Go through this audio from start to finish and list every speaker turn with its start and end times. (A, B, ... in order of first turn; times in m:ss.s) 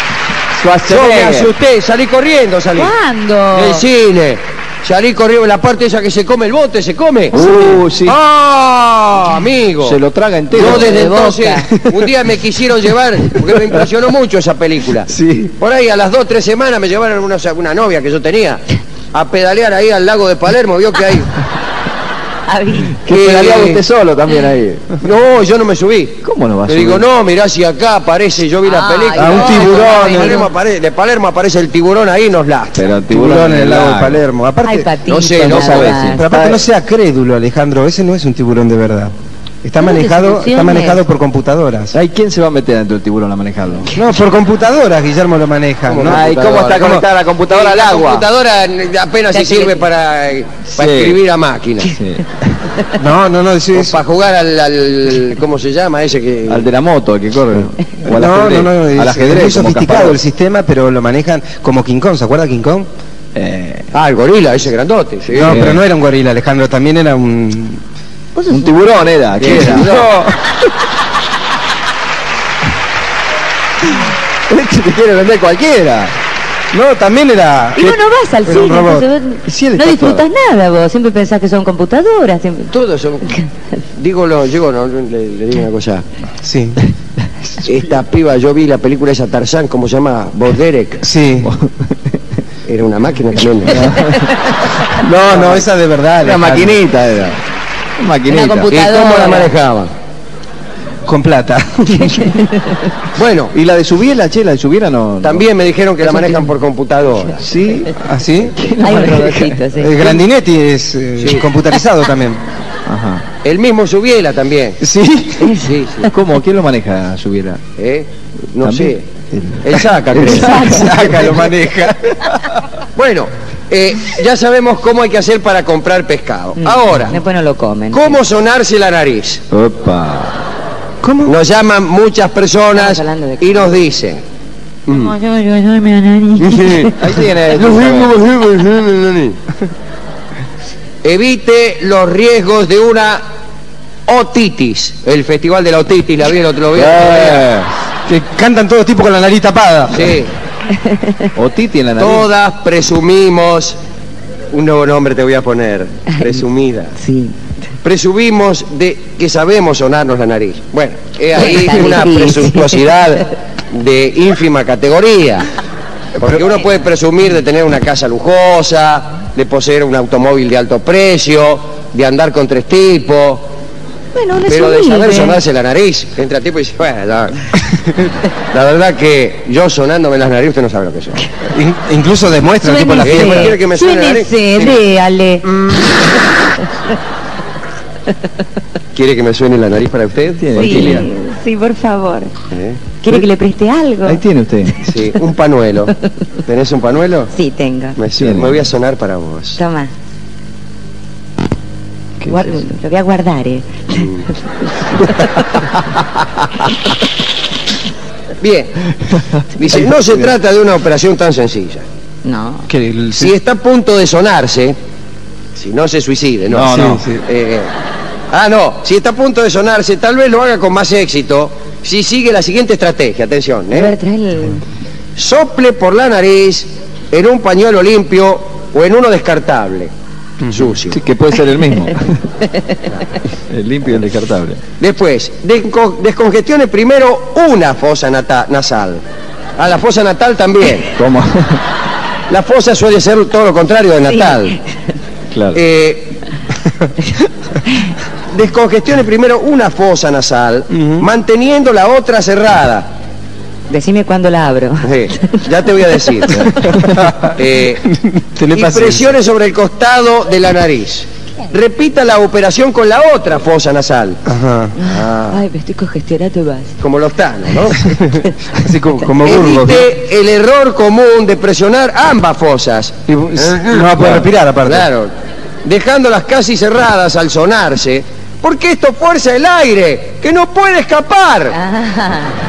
0:00.5-0:01.5 A
0:00.9-0:02.9 B
0:02.8-0:03.8 C
0:03.5-0:10.0 B
0:07.3-0:08.2 A
0:09.8-0:10.9 A
0:10.5-0:21.3 B
0:10.6-0:11.7 C
0:15.1-0:15.5 A
0:22.5-0:23.0 C
0:22.9-0:24.9 A
0:23.1-0:23.8 B
0:25.0-0:32.9 B
0:26.2-0:27.1 A
0:28.6-0:30.5 C
0:29.2-0:30.4 D
0:32.7-0:34.2 A
0:33.1-0:34.9 D
0:34.6-0:36.3 C
0:35.1-0:36.0 B
0:35.4-0:36.6 A
0:36.1-0:42.0 D
0:39.8-0:41.0 C
0:41.9-0:43.9 A
0:43.9-0:47.0 D
0:45.9-0:52.0 B
0:46.0-0:48.3 A
0:49.3-0:49.8 C
0:50.7-0:51.2 A
0:51.8-0:52.7 A
0:53.0-0:54.0 D
0:53.7-0:56.7 B
0:56.5-1:00.2 A
0:58.0-1:02.9 D
1:03.3-1:03.9 A
1:03.9-1:05.7 B
1:05.3-1:07.8 D
1:05.4-1:05.8 A
1:08.3-1:08.7 C
1:08.5-1:10.0 A
1:09.4-1:10.1 B
1:09.4-1:10.4 D
1:14.5-1:16.1 A
1:16.7-1:19.1 D
1:17.8-1:22.7 C
1:19.5-1:20.2 A
1:22.7-1:23.4 B
1:23.9-1:26.0 B
1:26.4-1:26.8 D
1:27.6-1:31.1 B
1:31.0-1:31.5 D
1:31.4-1:32.2 A
1:32.7-1:33.9 B
1:33.6-1:34.3 A
1:34.9-1:36.8 D
1:35.3-1:35.6 B
1:35.3-1:35.6 A
1:36.2-1:37.4 A
1:38.0-1:38.7 A
1:38.3-1:39.5 C
1:38.7-1:39.9 B
1:41.0-1:42.5 D
1:43.1-1:43.5 B
1:43.5-1:45.5 A
1:45.2-1:47.4 B
1:46.0-1:46.5 C
1:47.4-1:48.0 A
1:48.0-1:48.5 D
1:48.5-1:49.6 A
1:48.8-1:50.2 C
1:49.7-1:52.4 D
1:51.2-1:51.5 B
1:52.8-1:53.2 A
1:53.4-1:54.8 B
1:54.8-1:55.7 D
1:55.6-1:56.1 B
1:56.0-1:57.6 A
1:57.8-1:59.1 B
1:58.6-2:00.7 A
1:59.6-2:00.8 B
2:00.2-2:01.4 C
2:00.3-2:02.6 D
2:02.9-2:07.2 B
2:06.6-2:08.2 C
2:07.9-2:09.4 B
2:09.5-2:10.4 A
2:11.0-2:11.4 D
2:11.2-2:14.2 B
2:12.7-2:13.8 C
2:14.9-2:15.1 B
2:14.9-2:16.9 C
2:16.4-2:16.9 B
2:16.9-2:18.1 A
2:17.5-2:19.4 B
2:21.0-2:23.2 B
2:24.1-2:27.5 B
2:26.7-2:27.7 A
2:28.0-2:30.2 D
2:29.9-2:30.3 B
2:30.8-2:31.3 C
2:31.3-2:32.3 A
2:32.0-2:33.8 B
2:34.5-2:37.0 B
2:37.0-2:37.4 C
2:37.8-2:45.5 B
2:41.3-2:42.8 C
2:46.2-2:53.5 B
2:54.1-2:55.4 C
2:54.4-2:57.5 B
2:58.5-3:01.2 B
3:01.5-3:03.6 D
3:02.6-3:05.4 C
3:03.0-3:04.8 B
3:05.4-3:06.0 B
3:08.9-3:11.0 B
3:10.4-3:11.1 A
3:10.5-3:12.3 C
3:12.5-3:12.8 B
3:13.0-3:14.9 C
3:14.0-3:14.8 A
3:14.8-3:17.3 B
3:17.3-3:18.0 C
3:18.0-3:19.6 B
3:18.1-3:18.6 A
3:19.6-3:19.9 C
3:22.2-3:22.6 A
3:22.2-3:24.2 C
3:23.9-3:24.3 B
3:24.9-3:25.5 C
3:28.4-3:28.8 B
3:29.1-3:29.4 A
3:29.5-3:31.8 B
3:32.2-3:32.7 C
3:32.7-3:33.3 D
3:33.1-3:34.8 B
3:35.6-3:37.7 B
3:36.5-3:37.1 A
3:36.7-3:37.2 D
3:38.3-3:43.9 B
3:43.7-3:44.6 C
3:45.2-3:49.9 B
3:50.4-3:50.7 D
3:50.4-3:51.0 B
3:50.9-3:52.3 A
3:53.5-3:54.6 A
3:54.8-3:59.0 B
3:59.6-4:00.9 B
4:00.9-4:01.6 A
4:02.3-4:04.6 B
4:04.1-4:04.5 C
4:05.3-4:05.6 A
4:05.5-4:06.2 B
4:08.3-4:12.9 B
4:10.7-4:11.1 D
4:13.7-4:15.4 C
4:14.8-4:16.6 B
4:16.5-4:16.9 A
4:16.6-4:19.2 D
4:17.3-4:17.8 B
4:18.5-4:24.2 B
4:24.2-4:24.7 D
4:24.8-4:25.4 B
4:24.8-4:26.8 C
4:26.8-4:28.0 B
4:27.8-4:29.9 D
4:29.2-4:35.1 B
4:33.1-4:34.9 D
4:35.6-4:41.6 B
4:41.6-4:42.4 C